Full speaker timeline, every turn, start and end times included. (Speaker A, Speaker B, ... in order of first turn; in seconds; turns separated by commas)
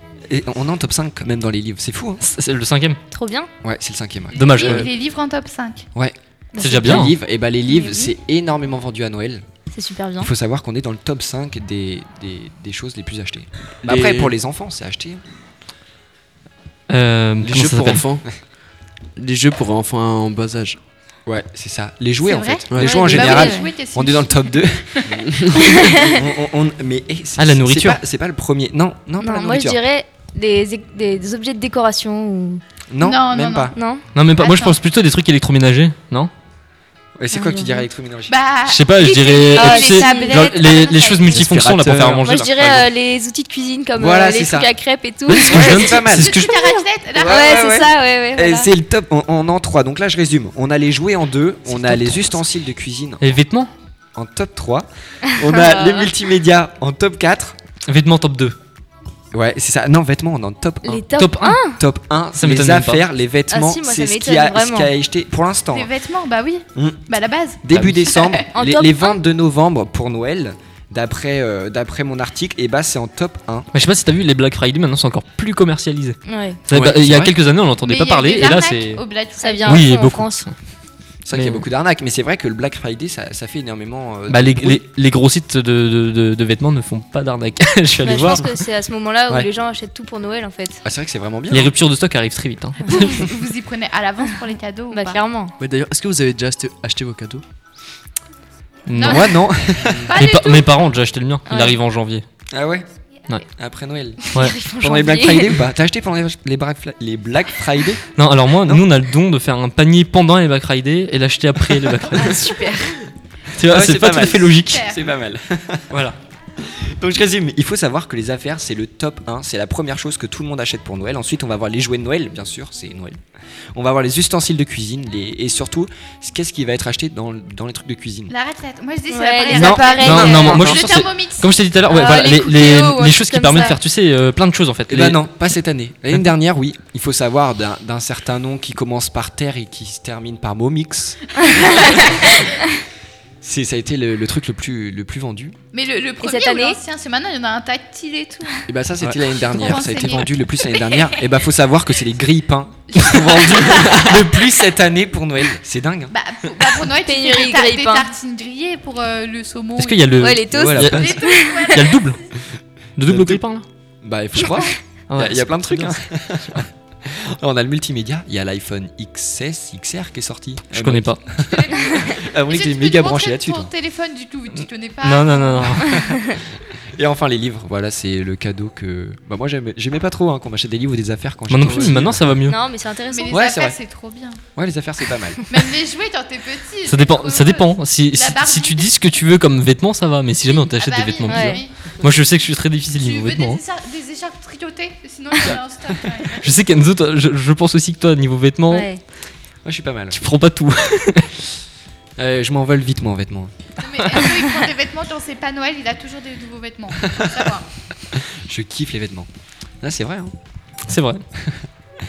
Speaker A: 0.3-2.2, Speaker B: 2.2-3.0, Speaker C: 3.1-3.5, Speaker A: 3.6-4.9, Speaker D: 4.3-5.8, Speaker B: 4.3-4.9, Speaker A: 5.9-9.4, Speaker C: 6.5-7.1, Speaker B: 6.6-7.1, Speaker C: 7.7-8.1, Speaker C: 9.7-10.3, Speaker A: 10.2-15.2, Speaker E: 13.8-14.3, Speaker B: 16.9-18.0, Speaker E: 17.4-18.3, Speaker E: 19.1-20.8, Speaker A: 21.2-29.8, Speaker D: 22.2-25.1, Speaker E: 22.7-23.1, Speaker C: 22.8-23.7, Speaker E: 25.1-25.6, Speaker C: 25.7-26.2, Speaker B: 27.4-28.0, Speaker C: 29.2-32.6, Speaker A: 32.9-33.7, Speaker D: 33.0-33.7, Speaker C: 33.7-34.0, Speaker B: 34.1-36.3, Speaker D: 34.4-34.8, Speaker A: 37.2-38.4, Speaker C: 37.3-37.8, Speaker D: 38.3-41.3, Speaker B: 38.6-42.9, Speaker C: 39.0-41.4, Speaker A: 41.3-42.5, Speaker C: 42.2-48.7, Speaker A: 44.0-44.7, Speaker B: 45.3-46.5, Speaker A: 45.4-46.5, Speaker D: 46.1-47.7, Speaker A: 47.1-53.3, Speaker B: 51.8-52.1, Speaker B: 53.2-53.7, Speaker A: 54.1-57.6, Speaker C: 55.5-56.1, Speaker B: 57.9-58.5, Speaker A: 59.3-61.0, Speaker C: 60.8-61.8, Speaker B: 61.1-61.6, Speaker A: 61.8-65.9, Speaker B: 62.4-63.0, Speaker C: 63.5-64.9, Speaker D: 65.7-68.5, Speaker A: 66.8-67.0, Speaker A: 67.6-73.7, Speaker B: 67.7-68.0, Speaker C: 68.5-69.2, Speaker B: 73.7-79.0, Speaker C: 76.3-76.6, Speaker A: 76.8-77.3, Speaker D: 77.8-79.9, Speaker C: 79.4-80.5, Speaker B: 79.6-80.5, Speaker A: 81.2-84.8, Speaker B: 81.3-81.6, Speaker B: 84.3-88.6, Speaker C: 88.0-90.8, Speaker A: 90.8-91.7, Speaker B: 91.5-93.2, Speaker D: 93.2-95.2, Speaker C: 94.9-95.5, Speaker E: 95.6-97.4, Speaker B: 98.9-99.4, Speaker D: 98.9-100.7, Speaker A: 99.0-100.1, Speaker B: 100.1-102.2, Speaker C: 101.5-101.8, Speaker A: 102.5-102.9, Speaker A: 103.5-108.0, Speaker C: 104.3-105.6, Speaker B: 108.2-112.5, Speaker C: 112.2-112.9, Speaker B: 113.5-114.9, Speaker A: 113.6-116.0, Speaker D: 114.7-115.0, Speaker B: 115.9-116.2, Speaker A: 116.6-123.2, Speaker A: 123.7-128.3, Speaker D: 128.3-131.5, Speaker C: 129.1-130.7, Speaker A: 129.5-130.9, Speaker B: 130.0-135.2, Speaker C: 131.9-133.8, Speaker A: 134.9-141.4, Speaker D: 141.6-142.1, Speaker A: 141.9-142.3, Speaker A: 143.4-145.6, Speaker D: 145.7-148.6, Speaker C: 146.2-146.8, Speaker A: 148.7-156.1, Speaker D: 149.4-151.2, Speaker D: 152.9-154.3, Speaker D: 156.1-160.3, Speaker C: 157.0-158.1, Speaker B: 159.8-162.2, Speaker C: 160.2-161.8, Speaker E: 160.5-161.1, Speaker D: 160.9-162.2, Speaker B: 163.0-163.6, Speaker E: 163.1-163.4, Speaker A: 164.0-173.7, Speaker B: 165.1-166.0, Speaker B: 170.7-171.2, Speaker D: 171.4-175.9, Speaker B: 175.0-176.0, Speaker A: 175.9-176.3, Speaker A: 176.9-182.3, Speaker B: 181.5-182.6, Speaker C: 182.5-183.4, Speaker D: 183.1-184.4, Speaker A: 183.3-183.8, Speaker A: 184.5-185.4, Speaker D: 185.5-188.9, Speaker B: 186.8-193.6, Speaker D: 190.5-192.2, Speaker C: 191.3-191.6, Speaker D: 192.9-196.5, Speaker B: 196.4-198.9, Speaker C: 198.7-199.0, Speaker A: 199.6-200.2, Speaker B: 200.1-201.3, Speaker A: 202.2-203.5, Speaker D: 203.8-207.7, Speaker A: 207.1-207.4, Speaker A: 208.1-209.3, Speaker A: 209.8-210.3, Speaker B: 210.9-211.2, Speaker A: 211.4-211.6